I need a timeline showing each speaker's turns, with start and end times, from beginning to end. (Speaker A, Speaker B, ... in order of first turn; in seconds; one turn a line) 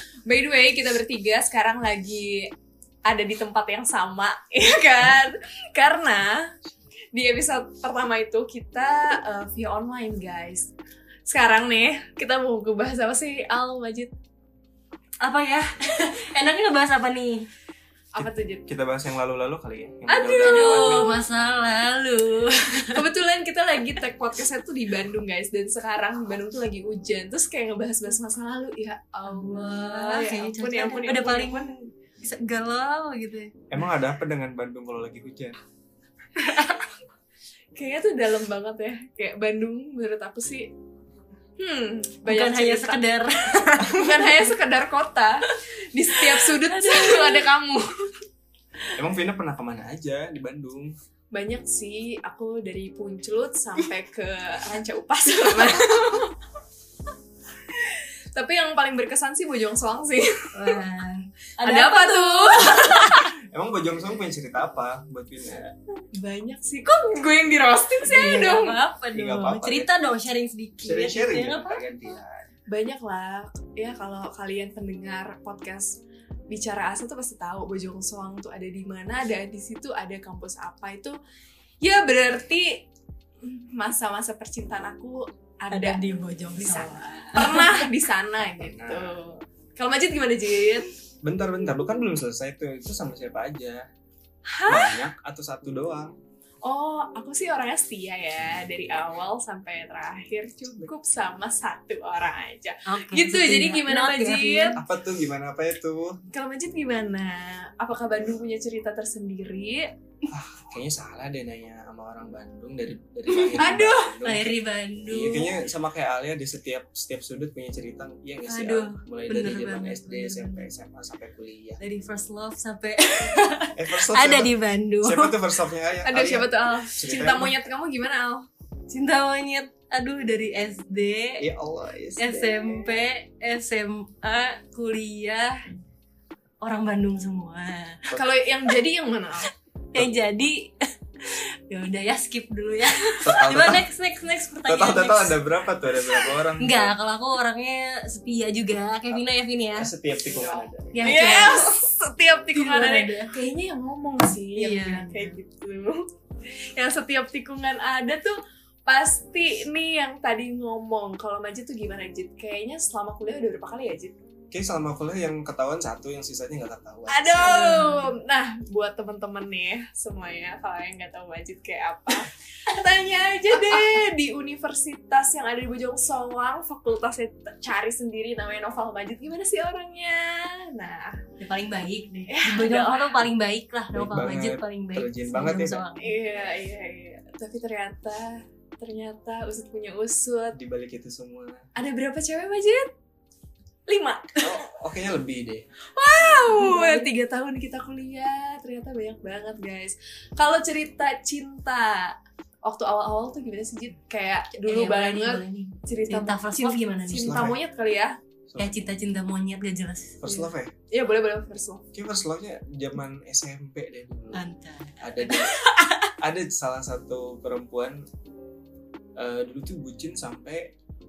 Speaker A: 0.3-2.5
Speaker A: 3.0-6.5
Speaker A: 7.1-10.7
Speaker A: 11.3-14.1
Speaker B: 15.2-17.5
Speaker A: 18.1-18.7
Speaker C: 18.2-21.2
Speaker A: 20.1-21.1
Speaker B: 20.4-23.0
Speaker A: 22.9-31.8
Speaker B: 29.3-31.7
Speaker B: 32.2-33.5
Speaker C: 33.7-35.6
Speaker A: 37.8-40.7
Speaker A: 41.6-48.2
Speaker B: 42.2-44.5
Speaker B: 46.2-47.5
Speaker C: 49.0-50.9
Speaker A: 51.3-56.4
Speaker A: 57.7-60.8
Speaker B: 60.5-63.3
Speaker A: 61.6-63.2
Speaker C: 63.4-65.8
Speaker A: 66.1-68.8
Speaker B: 68.1-71.8
Speaker C: 69.1-69.9
Speaker C: 70.8-72.5
Speaker A: 72.7-76.0
Speaker A: 76.5-81.2
Speaker A: 81.8-82.9
Speaker A: 83.4-86.0
Speaker B: 85.7-87.9
Speaker A: 86.6-90.9
Speaker C: 88.6-89.2
Speaker C: 91.2-93.9
Speaker A: 94.5-95.1
Speaker C: 94.7-96.1
Speaker A: 96.6-104.8
Speaker B: 102.9-104.8
Speaker C: 104.8-106.2
Speaker A: 106.3-109.9
Speaker C: 110.3-114.5
Speaker B: 113.3-115.6
Speaker A: 113.6-114.2
Speaker C: 115.1-121.8
Speaker B: 118.5-120.7
Speaker B: 121.8-125.4
Speaker C: 123.7-127.5
Speaker A: 126.0-128.5
Speaker B: 128.9-131.4
Speaker C: 131.4-132.8
Speaker B: 132.2-135.6
Speaker B: 136.6-138.1
Speaker A: 138.1-139.5
Speaker B: 139.9-145.4
Speaker C: 143.2-143.8
Speaker C: 144.7-146.9
Speaker B: 146.6-149.9
Speaker C: 149.8-151.3
Speaker A: 150.3-156.1
Speaker B: 150.9-151.8
Speaker B: 152.5-153.3
Speaker B: 154.6-155.4
Speaker A: 156.8-164.2
Speaker C: 164.5-167.8
Speaker A: 167.1-181.2
Speaker B: 167.4-168.1
Speaker B: 181.4-186.1
Speaker A: 182.3-183.2
Speaker C: 183.9-185.8
Speaker A: 186.0-190.6
Speaker C: 190.5-191.6
Speaker A: 191.8-192.9
Speaker A: 193.9-194.6
Speaker C: 194.4-195.7
Speaker A: 195.9-208.2
Speaker B: 196.5-197.1
Speaker B: 204.7-207.6
Speaker C: 207.2-207.6
Speaker C: 208.5-208.8
Speaker B: 208.6-210.2
Speaker C: 210.2-210.7
Speaker A: 210.3-211.8
Speaker C: 211.9-214.4
Speaker B: 214.3-216.1
Speaker C: 215.0-215.6
Speaker C: 216.2-218.1
Speaker C: 219.2-220.8